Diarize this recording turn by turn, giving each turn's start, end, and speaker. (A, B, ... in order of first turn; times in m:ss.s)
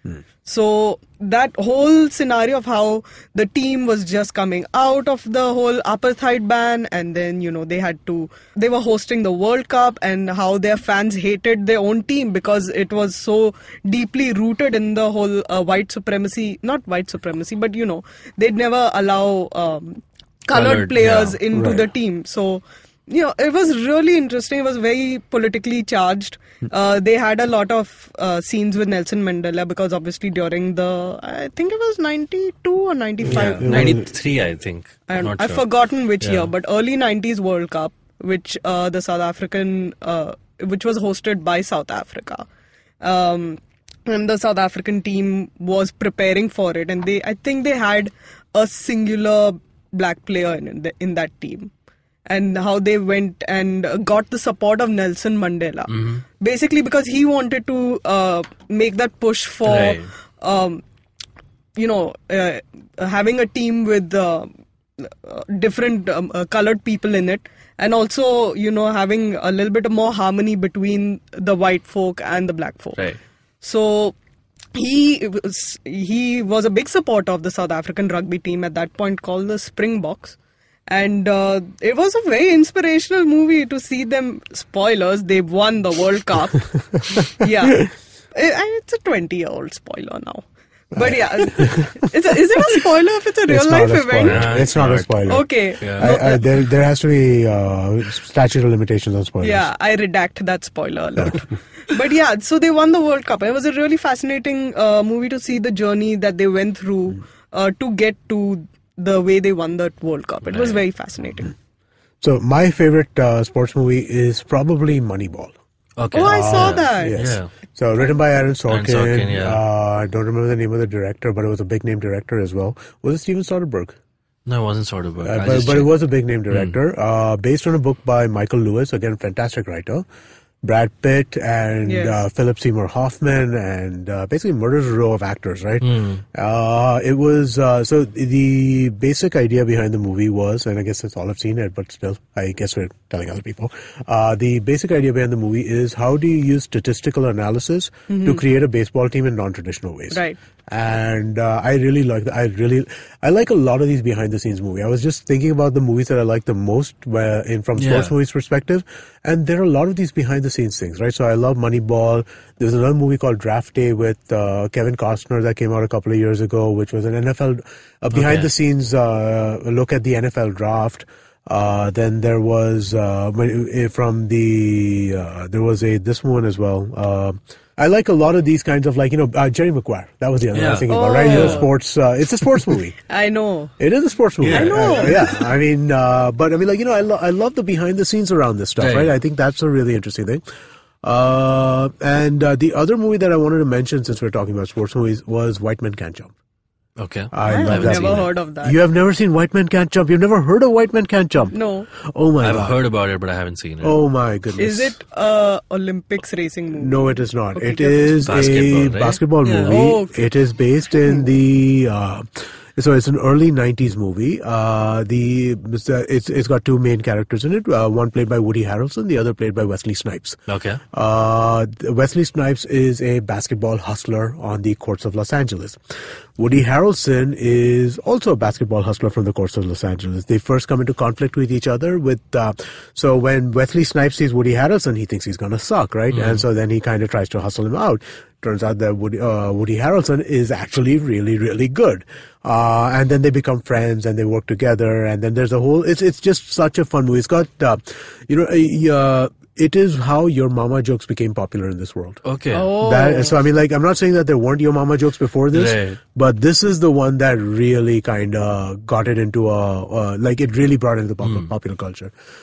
0:00.4-0:34.0 A
0:20.5-0:21.4 B
0:21.5-0:21.8 C
0:33.2-0:34.1 C
0:33.3-0:35.6 B
0:35.1-0:42.5 A
0:36.2-0:36.5 B
0:43.0-0:51.7 A
0:52.3-1:00.8 A
0:55.9-0:56.2 B
0:59.6-1:00.1 B
1:01.8-1:13.0 A
1:13.6-1:14.2 A
1:14.7-1:20.4 A
1:20.9-1:34.5 A
1:31.0-1:32.0 C
1:33.5-1:39.7 C
1:34.2-1:36.1 B
1:35.3-1:36.4 A
1:39.4-1:51.5 A
1:50.4-1:50.8 B
1:52.2-1:55.5 C
1:56.0-1:57.5 B
1:56.1-1:57.2 A
1:56.2-2:04.0 C
1:58.7-1:59.6 B
2:04.4-2:05.9 B
2:05.2-2:10.0 C
2:06.5-2:06.8 B
2:10.6-3:03.0 C
2:11.8-2:12.2 A
2:15.8-2:16.2 B
2:28.1-2:28.4 A
2:30.1-2:30.4 A
2:37.8-2:38.1 B
2:48.1-2:48.5 B
3:00.5-3:01.7 B
3:00.9-3:01.7 A
3:03.1-3:03.7 A
3:03.8-3:10.4 C
3:04.4-3:05.3 B
3:04.5-3:05.3 A
3:08.8-3:09.1 B
3:11.0-3:16.3 C
3:17.0-3:18.3 B
3:17.3-3:22.7 C
3:17.4-3:18.8 A
3:21.5-3:21.9 A
3:22.4-3:24.0 B
3:23.8-3:25.0 C
3:24.6-3:28.3 A
3:26.8-3:40.4 C
3:28.2-3:29.7 B
3:29.7-3:30.3 A
3:40.5-3:40.8 B
3:40.9-3:45.8 C
3:46.4-4:12.2 C
3:56.1-3:56.4 B
4:12.2-4:12.7 B
4:12.5-4:13.4 A
4:12.8-4:22.1 C
4:15.5-4:16.0 B
4:21.2-4:21.5 B